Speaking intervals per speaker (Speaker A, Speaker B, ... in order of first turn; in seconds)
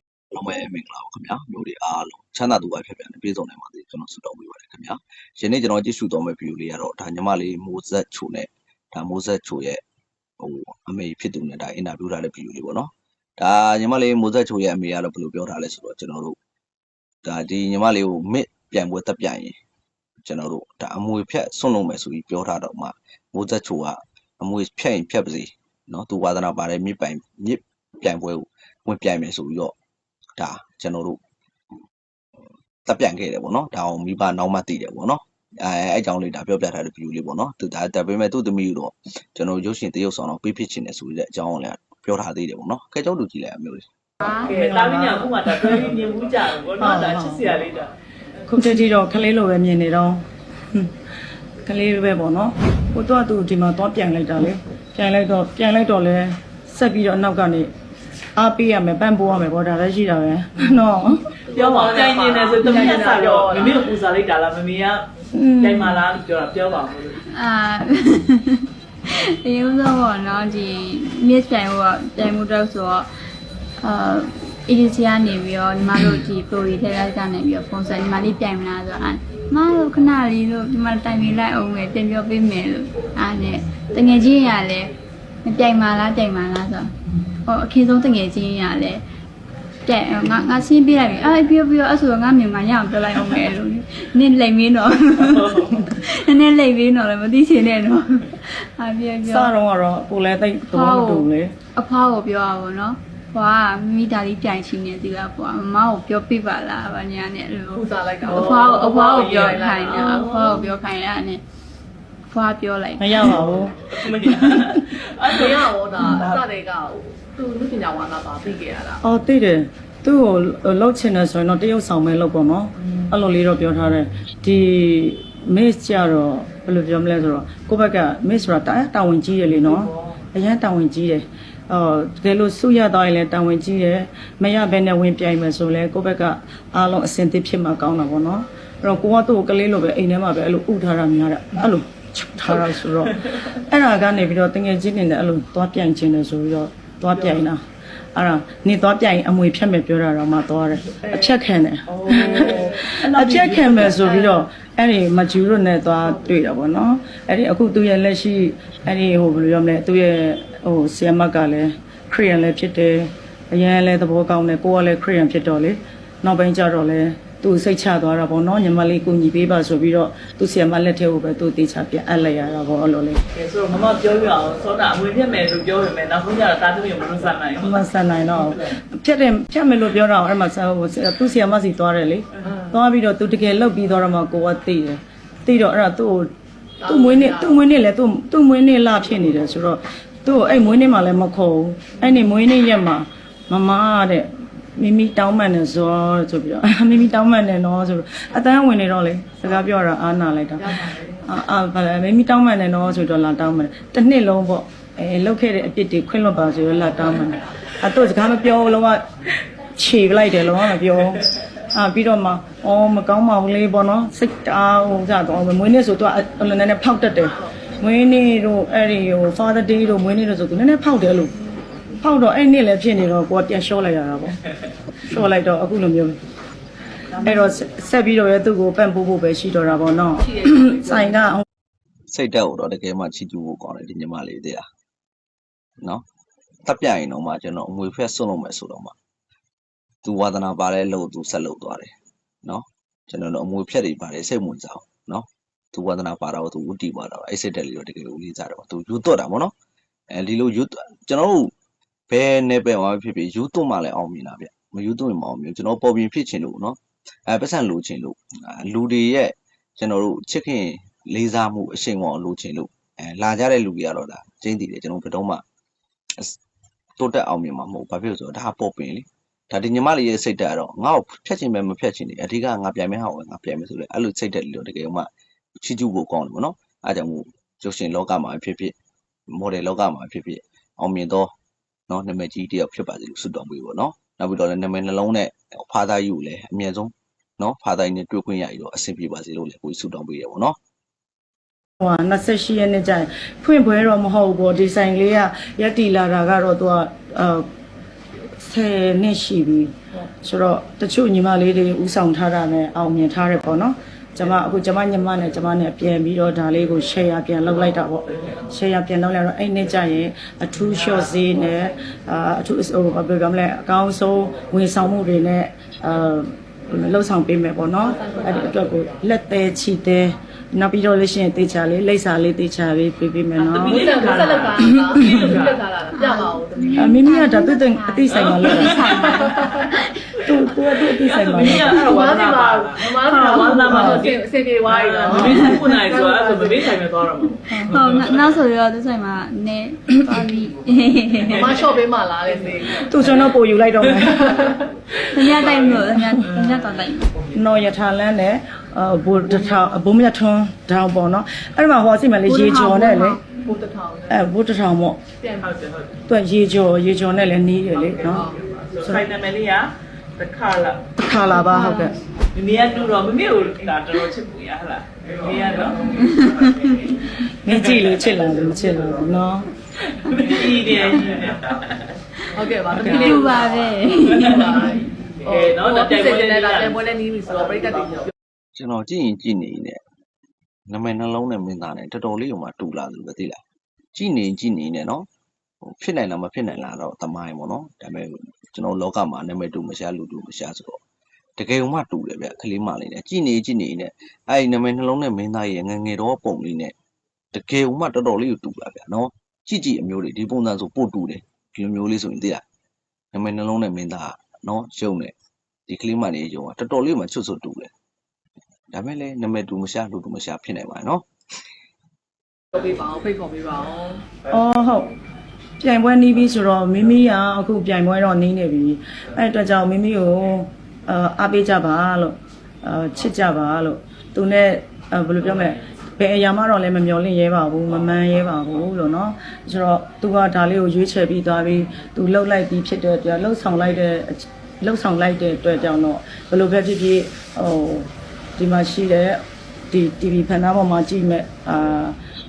Speaker A: 0.3-9.8, 10.4-16.4, 17.2-19.6, 20.2-29.7, 30.4-31.2, 32.9-43.9, 232.1-234.7, 236.7-238.9, 240.0-241.9, 242.4-249.5, 250.1-251.5, 252.1-265.4, 267.0-278.7, 279.3-281.3, 281.9-290.6, 378.6-379.8, 380.7-383.4, 383.9-385.1, 385.6-390.8, 391.4-396.7, 397.3-402.4, 403.1-405.1, 405.7-407.7, 408.7-411.1
Speaker B: 44.2-45.7, 46.8-47.5, 48.5-50.9, 51.6-57.7, 58.4-61.3, 65.3-66.0, 99.2-101.5, 113.0-114.5, 119.0-147.6, 148.2-173.2, 177.6-186.3, 186.8-209.1, 209.8-221.3, 222.0-224.4, 225.0-226.2, 227.1-231.4, 291.8-297.5, 298.4-323.8, 324.6-325.0, 326.8-329.1, 330.2-332.0, 333.7-334.0, 335.1-335.4, 337.5-337.8, 342.7-344.5, 347.3-353.2, 354.1-355.0, 356.1-358.3, 361.0-362.0, 367.2-369.5, 414.3-414.9, 415.6-441.9
Speaker C: 44.4-47.9, 61.5-65.0, 65.6-67.2, 109.2-110.7, 113.2-116.4, 151.9-152.2, 152.8-154.1, 173.3-177.8, 323.4-325.6, 328.1-338.2, 341.3-341.6, 345.3-346.7, 355.4-356.0, 358.5-360.9, 362.3-365.9, 367.6-368.1, 370.0-371.8, 372.7-373.5, 374.0-374.6, 375.3-376.8
Speaker D: 61.5-63.9, 107.7-110.2, 115.3-119.0, 152.1-152.8, 186.8-187.6, 230.4-231.0, 318.1-318.4, 323.6-327.0, 329.0-329.7, 331.4-336.8, 341.2-342.9, 344.0-344.7, 353.3-354.2, 355.2-355.5, 358.0-358.6, 372.3-373.7, 374.2-378.1, 412.5-414.0
Speaker E: 67.3-73.1, 73.8-84.9, 85.4-86.9, 87.5-89.0, 89.9-99.5, 100.7-111.4, 112.3-113.4, 325.9-330.0, 337.5-341.7, 345.0-347.1, 352.3-353.2, 361.3-362.0, 366.1-366.5, 372.8-374.8